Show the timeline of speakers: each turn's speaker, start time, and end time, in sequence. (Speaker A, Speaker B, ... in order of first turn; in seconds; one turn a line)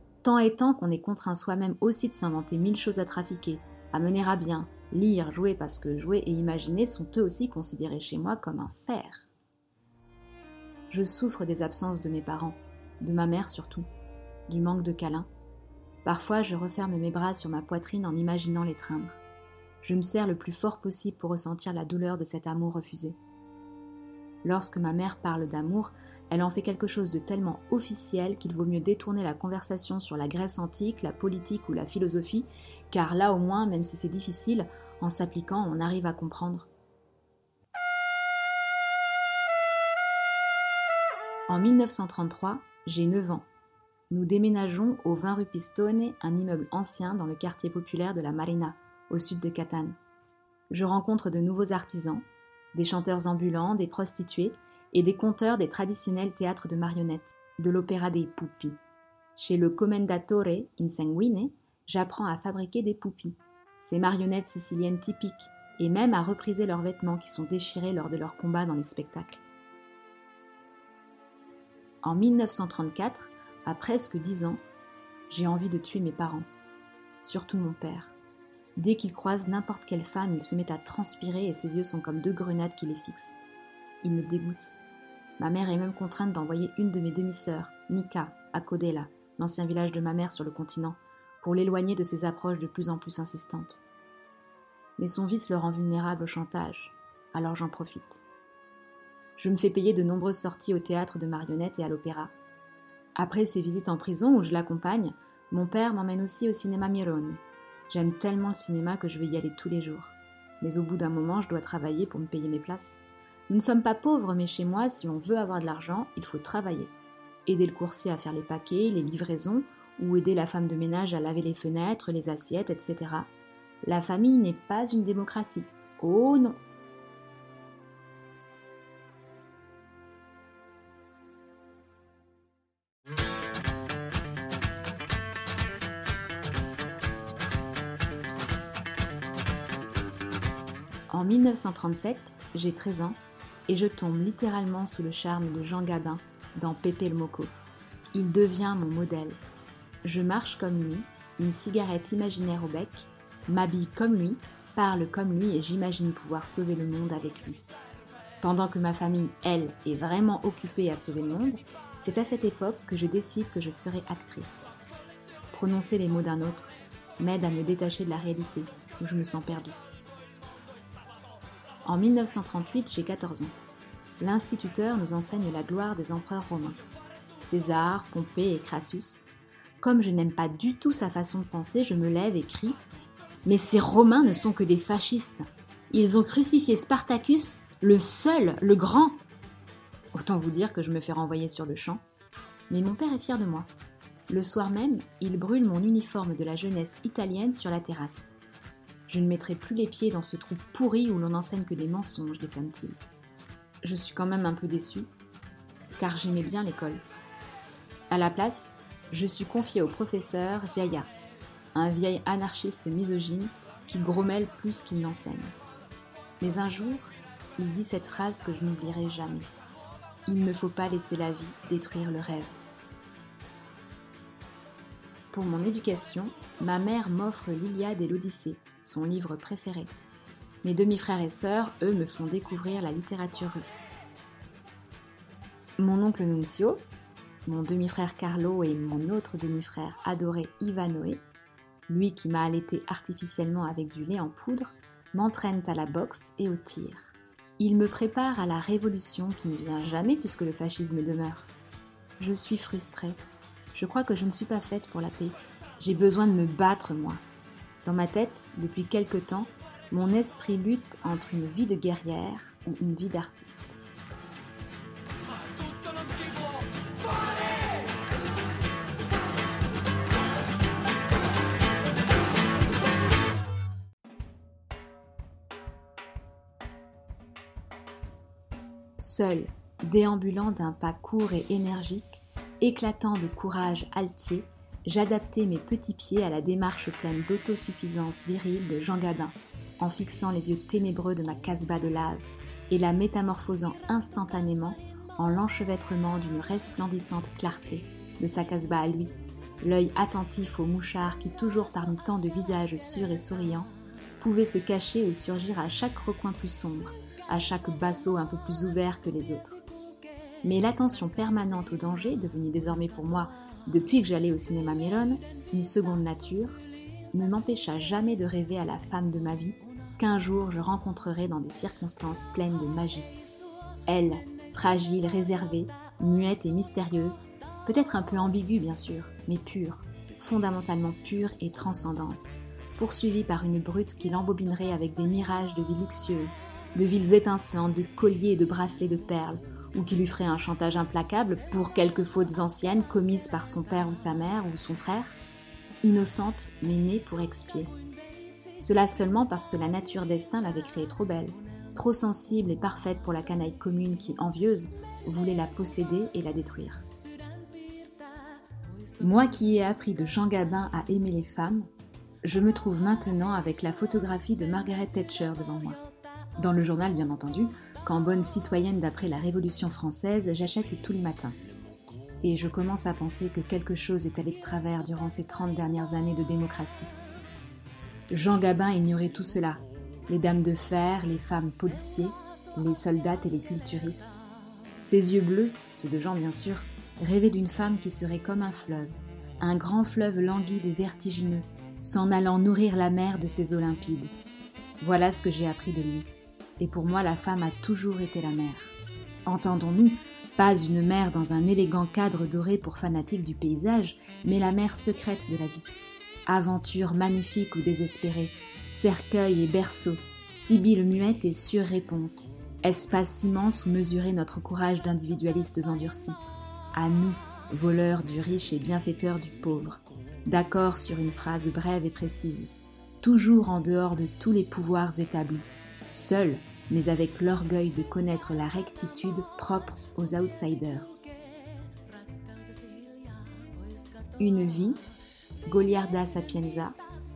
Speaker A: 0.2-9.3
Speaker A: 10.9-13.8
Speaker A: 14.5-15.3
Speaker A: 16.0-19.2
Speaker A: 19.8-23.2
Speaker A: 24.4-36.7
Speaker A: 41.5-43.5
Speaker A: 44.1-50.0
Speaker A: 50.7-58.8
Speaker A: 59.4-69.4
Speaker A: 72.0-74.6
Speaker A: 75.3-76.5
Speaker A: 77.2-78.2
Speaker A: 78.8-83.4
Speaker A: 84.0-84.7
Speaker A: 85.4-93.8
Speaker A: 95.0-98.2
Speaker A: 99.4-102.3
Speaker A: 103.2-116.9
Speaker A: 117.5-123.3
Speaker A: 123.8-126.6
Speaker A: 141.1-147.5
Speaker A: 148.1-149.4
Speaker A: 150.0-157.6
Speaker A: 158.4-164.7
Speaker A: 165.5-169.8
Speaker A: 171.8-173.5
Speaker A: 174.2-176.8
Speaker A: 177.4-179.3
Speaker A: 179.8-182.8
Speaker A: 183.4-189.2
Speaker A: 190.1-192.0
Speaker A: 192.7-193.7
Speaker A: 194.3-198.3
Speaker A: 199.1-203.0
Speaker A: 203.8-205.1
Speaker A: 205.9-207.0
Speaker A: 208.1-211.1
Speaker A: 211.7-215.5
Speaker A: 216.4-219.5
Speaker A: 220.3-222.5
Speaker A: 225.3-229.9
Speaker A: 230.6-233.9
Speaker A: 235.8-236.8
Speaker A: 237.4-241.2
Speaker A: 241.9-251.5
Speaker A: 252.2-253.2
Speaker A: 253.7-257.2
Speaker A: 257.8-263.8
Speaker A: 279.0-309.6
Speaker A: 310.4-316.6
Speaker A: 317.1-323.1
Speaker A: 323.9-345.2
Speaker A: 345.8-347.7
Speaker A: 348.6-356.9
Speaker A: 359.0-361.7
Speaker A: 362.2-365.8
Speaker A: 366.4-371.4
Speaker A: 372.2-376.9
Speaker A: 378.1-384.1
Speaker A: 384.8-394.1
Speaker A: 394.8-396.1
Speaker A: 396.6-398.7
Speaker A: 399.2-405.7
Speaker A: 406.3-416.2
Speaker A: 416.7-430.9
Speaker A: 434.2-434.8
Speaker A: 435.4-436.8